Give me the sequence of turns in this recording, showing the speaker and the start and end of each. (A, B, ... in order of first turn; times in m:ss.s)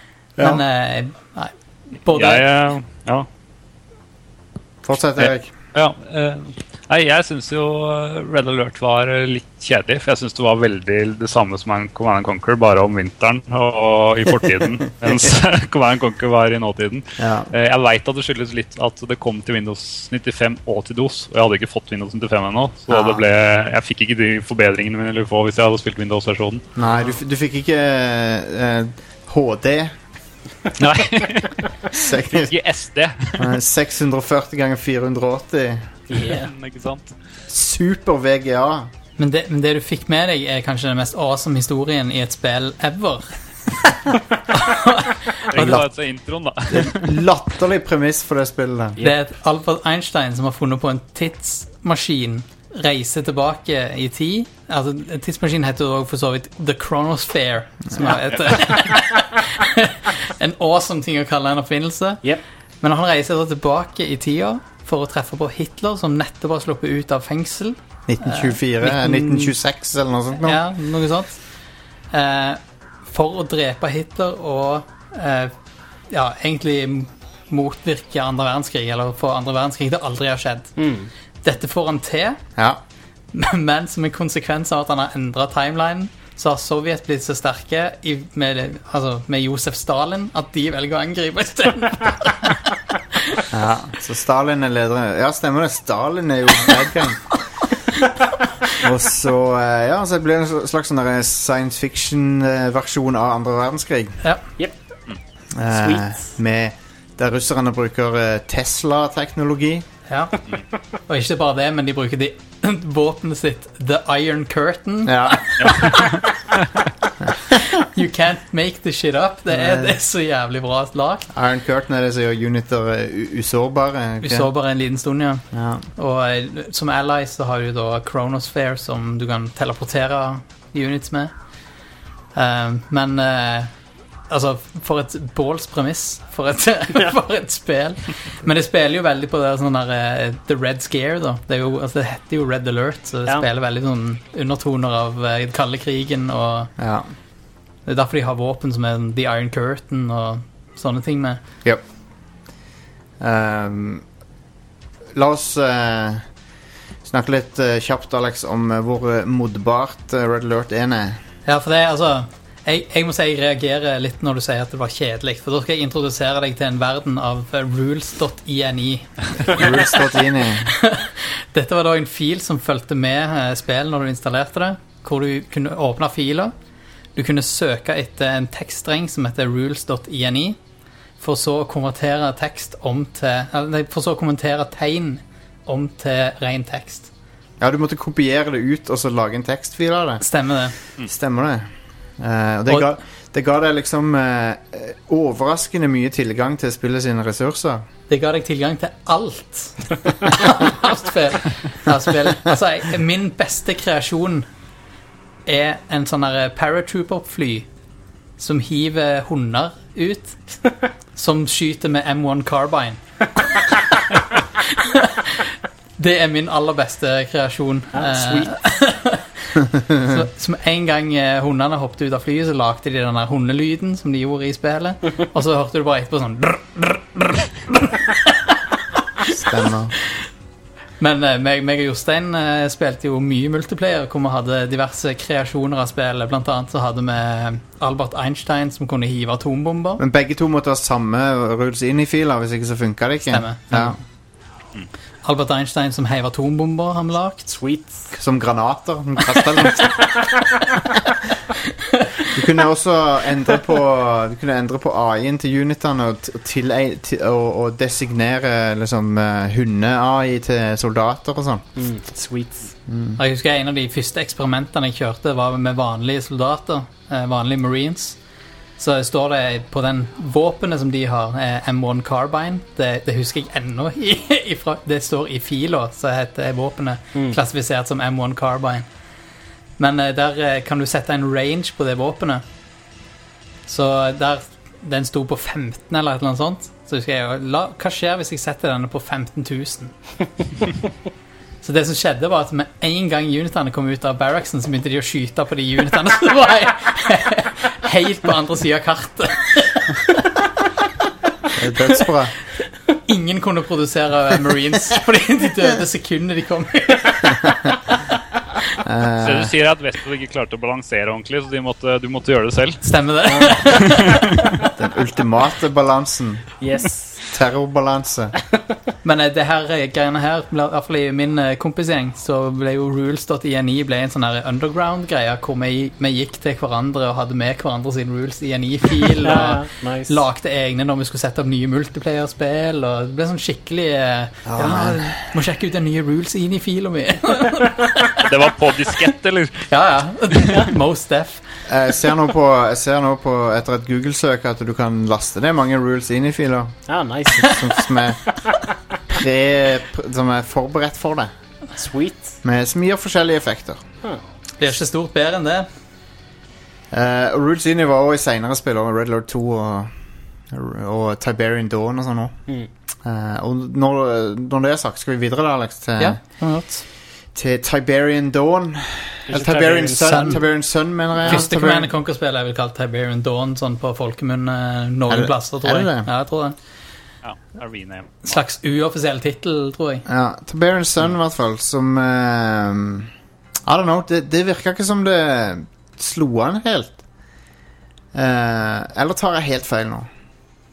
0:00.4-0:00.6 A
0:00.4-0:02.4 B
0:02.1-0:03.3 C
0:04.8-0:05.5 A
0:05.2-0:26.6 C
0:15.0-0:15.3 A
0:17.2-0:17.5 A
0:22.9-0:23.2 A
0:26.8-0:29.9 A
0:30.8-0:33.6 C
0:31.9-0:32.5 A
0:33.4-0:35.9 A
0:36.1-0:36.5 D
0:36.2-0:37.1 C
0:37.5-0:38.9 A
0:39.2-0:43.4 B
0:44.5-0:45.8 B
0:45.5-0:47.2 C
0:45.5-0:45.9 A
0:46.7-0:49.0 A
0:49.0-1:02.2 B
1:02.8-1:09.6 B
1:08.1-1:10.6 A
1:10.4-1:11.4 B
1:12.1-1:15.5 B
1:16.1-1:20.8 B
1:20.8-1:21.1 D
1:21.4-1:22.4 B
1:23.3-1:32.6 B
1:33.5-1:37.4 A
1:38.8-1:44.2 A
1:45.6-1:49.9 A
1:45.7-1:46.2 D
1:50.1-1:50.3 B
1:51.1-1:56.2 B
1:55.0-1:55.9 A
1:55.6-1:56.9 C
1:57.2-1:57.8 A
1:57.8-2:01.3 B
1:59.5-2:00.0 A
2:01.3-2:04.5 A
2:04.2-2:05.4 B
2:05.5-2:05.9 A
2:06.0-2:11.3 B
2:12.3-2:13.7 B
2:14.3-2:26.7 B
2:26.8-2:27.1 A
2:27.9-2:31.4 B
2:33.2-2:34.0 A
2:35.1-2:36.3 A
2:37.0-2:41.2 A
2:41.4-2:50.0 B
2:49.5-2:50.7 A
2:50.6-2:56.5 B
2:57.1-3:00.6 B
3:01.2-3:07.1 B
3:07.6-3:10.2 A
3:10.2-3:10.7 B
3:11.0-3:11.7 A
3:12.2-3:17.8 A
3:18.1-3:24.5 B
3:25.4-3:27.7 B
3:28.4-3:30.6 B
3:31.1-3:33.0 B
3:34.6-3:48.4 B
3:37.9-3:38.4 D
3:39.6-3:40.2 A
3:49.3-3:49.9 A
3:51.0-4:00.0 B
4:00.0-4:04.0 A
4:03.3-4:04.0 B
4:05.2-4:07.4 B
4:07.4-4:08.1 D
4:08.1-4:10.1 A
4:09.7-4:10.1 D
4:12.3-4:21.7 A
4:21.8-4:22.7 D
4:22.9-4:23.2 A
4:23.2-4:28.2 B
4:28.8-4:38.9 B
4:37.1-4:37.4 D
4:39.8-4:42.4 B
4:43.7-4:49.9 B
4:51.6-5:00.1 B
5:01.5-5:02.3 A
5:03.0-5:07.5 B
5:08.8-5:09.5 A
5:09.2-5:12.8 C
5:12.8-5:14.2 B
5:13.3-5:14.0 D
5:13.7-5:14.2 C
5:14.8-5:16.6 A
5:16.6-5:17.3 D
5:17.3-5:18.3 A
5:19.0-5:38.2 B
5:29.2-5:30.2 D
5:34.4-5:35.3 A
5:38.2-5:39.7 C
5:39.7-5:41.4 B
5:41.7-5:46.8 A
5:46.9-5:47.8 D
5:47.4-5:48.4 A
5:49.1-5:51.3 A
5:51.8-5:52.4 D
5:52.4-5:53.8 A
5:54.6-5:55.7 B
5:56.9-5:59.9 A
6:00.5-6:02.3 A
6:03.0-6:06.2 A
6:06.0-6:06.8 B
6:07.3-6:11.9 A
6:09.3-6:10.4 D
6:10.1-6:10.4 B
6:11.2-6:16.6 B
6:15.1-6:16.1 A
6:17.2-6:18.4 C
6:18.2-6:20.0 B
6:20.1-6:23.1 A
6:23.7-6:27.0 A
6:28.1-6:30.1 A